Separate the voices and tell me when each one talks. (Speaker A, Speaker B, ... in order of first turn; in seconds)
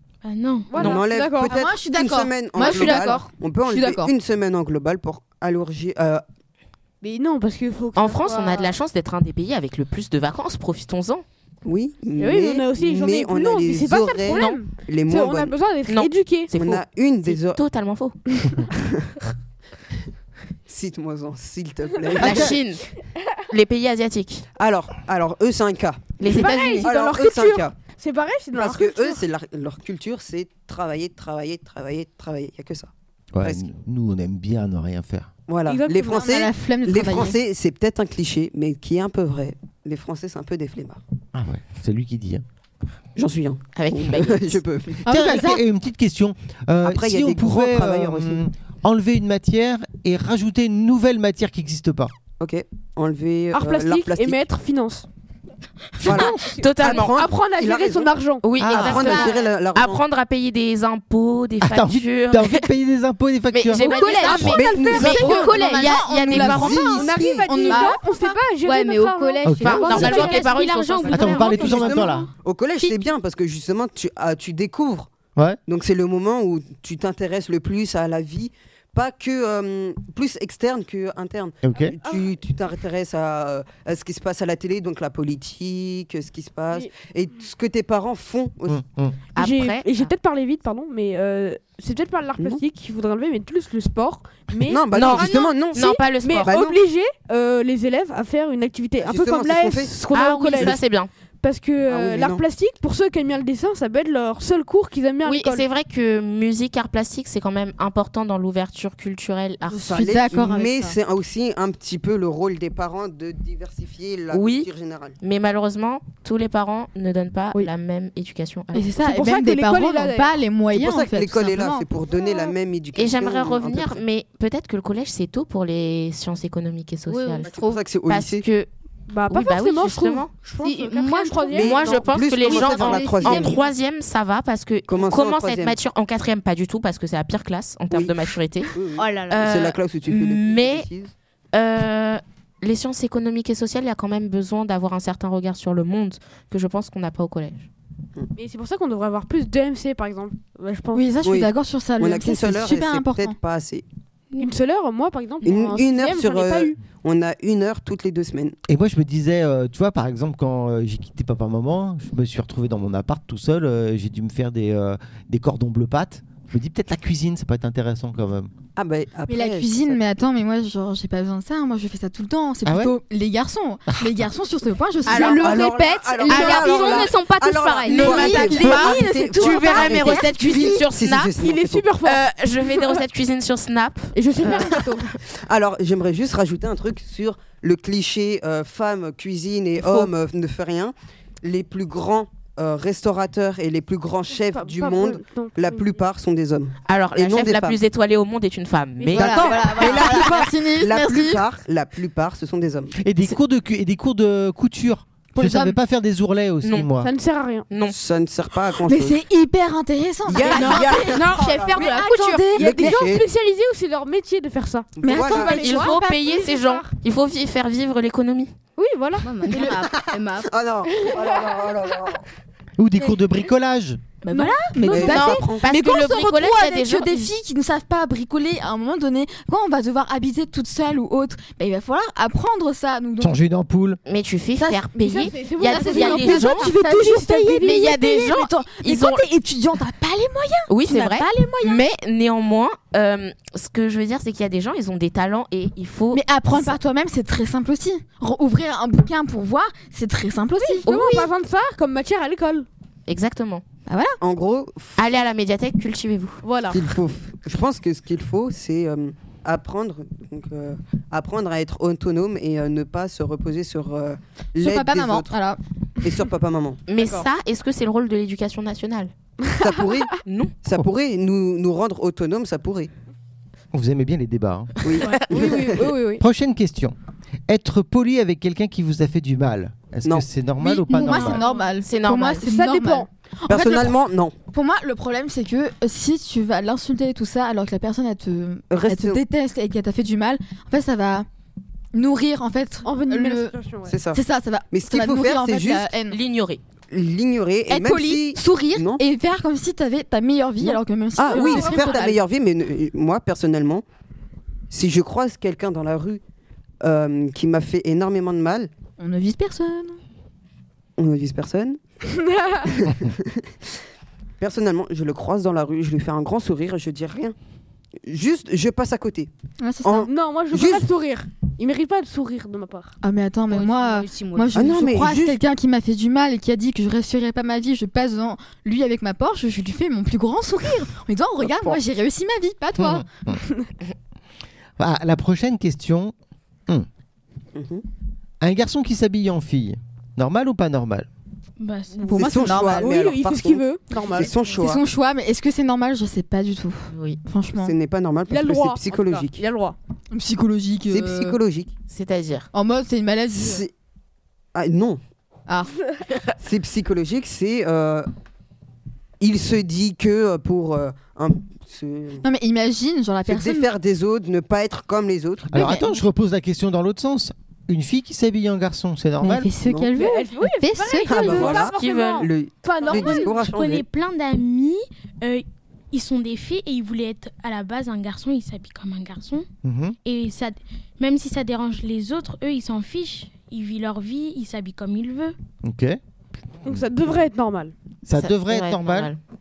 Speaker A: 0.2-0.8, 70.8-72.0, 280.9-281.6, 341.6-342.2, 372.9-379.4, 380.0-385.3
Speaker B: 0.7-1.6, 7.0-8.7, 12.2-16.5, 26.2-29.2, 35.6-36.3, 53.5-55.0, 56.9-59.1, 66.9-71.8, 82.0-82.3, 89.3-100.8, 101.4-105.7, 119.0-120.4, 129.1-132.8, 148.3-151.1, 154.4-156.8, 181.3-183.0, 184.1-185.1, 194.3-196.0, 207.0-207.7, 211.8-216.8, 218.8-219.2, 224.3-225.3, 235.0-237.7, 250.6-252.7, 256.4-256.8, 267.0-267.2, 275.2-276.2, 282.4-283.1, 292.8-293.9, 301.3-302.0, 312.1-312.7, 320.1-322.9, 342.2-344.3, 348.3-349.8, 369.9-373.4, 386.6-387.7
Speaker C: 0.7-1.0, 2.6-3.2, 8.0-11.2, 14.3-14.6, 15.9-18.2, 22.2-22.9, 23.5-24.4, 26.2-26.9, 43.8-44.6, 56.0-57.1, 58.4-62.7, 63.5-67.0, 69.5-71.8, 89.3-90.1, 94.9-96.5, 100.1-101.1, 105.2-110.0, 114.3-114.7, 115.2-118.9, 122.9-128.7, 129.3-130.3, 131.5-138.7, 139.3-140.9, 141.5-147.7, 175.1-175.7, 176.2-177.1, 177.8-181.3, 182.0-184.8, 196.9-200.3, 206.6-206.9, 207.7-207.9, 210.7-211.6, 215.3-218.5, 224.9-227.3, 234.1-236.7, 237.6-239.2, 240.7-246.8, 250.8-251.3, 253.1-253.6, 255.0-256.4, 266.9-269.1, 270.2-270.5, 281.8-282.4, 296.1-296.6, 346.9-347.2, 351.9-352.5, 371.5-372.3, 388.1-389.2
Speaker D: 0.8-6.2, 11.6-15.6, 16.5-17.6, 18.7-19.1, 20.7-22.6, 24.6-27.8, 28.5-33.6, 35.5-41.0, 43.1-45.0, 46.8-48.4, 52.4-54.4, 56.0-58.1, 58.7-60.0, 64.5-65.5, 66.3-67.8, 71.5-75.1, 75.7-88.8, 94.5-96.8, 99.0-100.0, 101.8-102.4, 109.7-115.2, 120.7-124.0, 127.5-128.4, 131.6-133.6, 134.9-135.8, 137.9-141.1, 151.2-153.8, 155.4-158.6, 168.8-170.0, 175.3-181.9, 185.4-197.8, 199.1-202.9, 207.9-209.2, 210.2-211.9, 212.6-213.2, 215.0-215.7, 220.1-222.2, 224.9-225.7, 254.2-255.0, 256.7-265.3, 266.0-266.8, 269.6-270.1, 270.6-272.9, 274.8-275.9, 283.5-284.3, 288.7-289.2, 293.9-295.9, 296.9-299.0, 300.6-303.8, 304.7-306.2, 306.8-308.7, 311.0-311.8, 312.7-313.4, 314.4-317.4, 318.1-319.3, 319.8-320.9, 324.5-325.4, 337.5-337.8, 342.1-344.8, 347.6-349.4, 350.9-351.7, 353.3-353.7, 354.5-355.0, 356.4-358.1, 359.2-362.2, 363.3-365.7, 369.6-369.9, 371.1-373.8
Speaker E: 1.4-4.1, 36.1-37.4, 45.0-45.6, 64.0-68.4, 109.7-111.0, 118.7-121.8, 150.9-153.3, 169.3-175.7, 178.1-180.8, 199.1-201.4, 205.3-205.8, 208.8-212.9, 215.0-216.6, 224.2-233.3, 234.6-241.8, 246.1-250.9, 253.9-254.2, 264.6-265.6, 280.6-284.0, 284.5-291.2, 291.9-293.5, 294.1-296.2, 297.7-302.1, 309.0-310.0, 319.6-320.1, 323.0-333.1, 342.1-342.9, 344.5-347.7, 350.1-351.4, 352.5-353.6, 355.5-355.7, 362.2-363.7, 365.6-365.9, 369.2-371.6
Speaker F: 33.3-35.3, 41.3-42.4, 45.0-52.1, 56.0-56.5, 58.6-59.0, 61.6-64.5, 69.4-70.3, 71.1-72.3, 81.6-81.9, 88.7-89.2, 158.7-168.5, 172.6-172.9, 203.0-207.1, 222.8-224.0, 233.2-234.0, 273.7-274.7, 276.2-276.9, 277.5-281.4, 332.8-333.4, 334.8-336.1, 338.4-341.1, 365.5-369.5, 379.6-379.9, 385.6-386.0, 388.1-389.1
Speaker G: 63.7-66.0, 68.6-72.0, 127.1-127.8, 130.6-133.5, 138.9-139.4, 175.1-179.8, 211.3-212.3, 219.2-220.5, 323.5-324.9